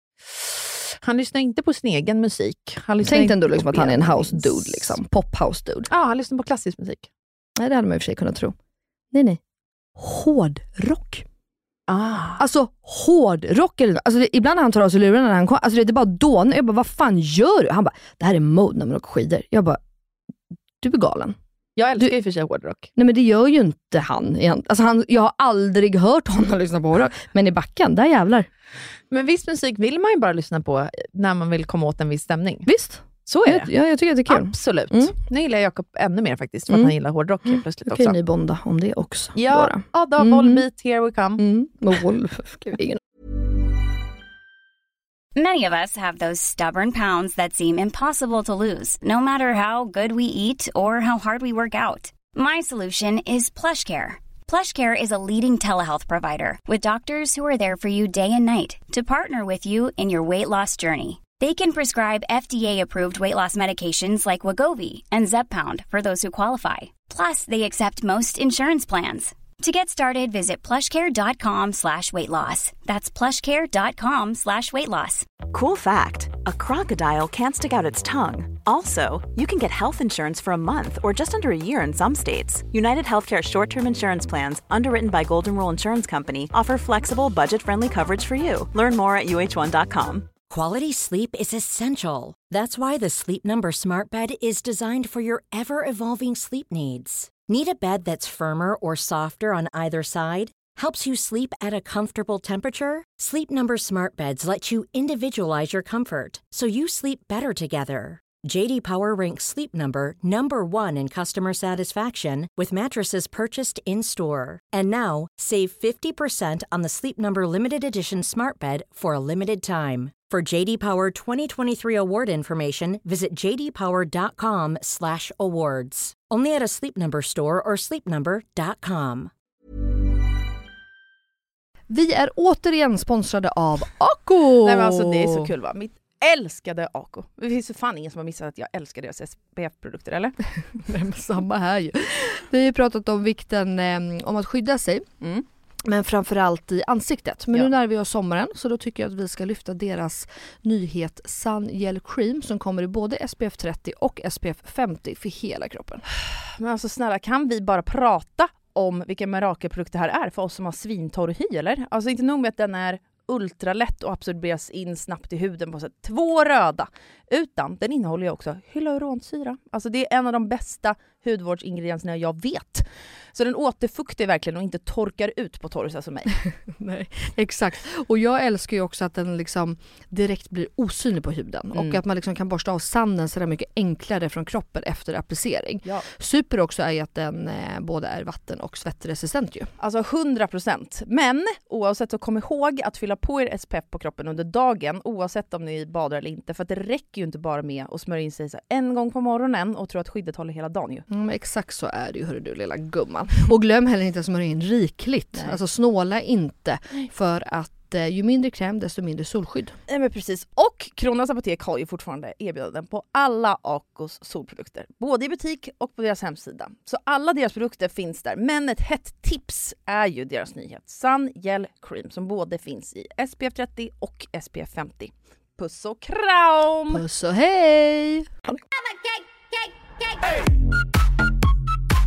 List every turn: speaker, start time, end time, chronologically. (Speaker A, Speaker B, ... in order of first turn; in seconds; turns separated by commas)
Speaker A: 0.2-5.0, Speaker B: 3.0-5.9, Speaker A: 5.9-7.1, Speaker B: 7.6-8.5, Speaker B: 9.1-9.4, Speaker B: 10.0-11.2, Speaker A: 11.9-12.4, Speaker B: 12.4-19.8, Speaker B: 20.8-21.4, Speaker A: 21.8-22.9, Speaker B: 22.9-28.5, Speaker A: 29.1-32.7, Speaker B: 32.7-35.1, Speaker A: 33.2-33.7, Speaker A: 34.3-38.1, Speaker B: 37.5-40.6, Speaker A: 39.3-41.4, Speaker B: 41.4-43.0, Speaker C: 45.3-75.3, Speaker D: 75.5-90.3, Speaker E: 90.5-129.3, Speaker B: 131.9-135.5, Speaker A: 134.6-140.3, Speaker B: 140.7-145.2, Speaker B: 145.8-156.0, Speaker A: 156.6-176.3, Speaker B: 176.7-189.7, Speaker A: 181.7-182.0, Speaker A: 189.8-201.1, Speaker B: 201.1-209.8, Speaker A: 209.9-227.0, Speaker B: 226.9-228.6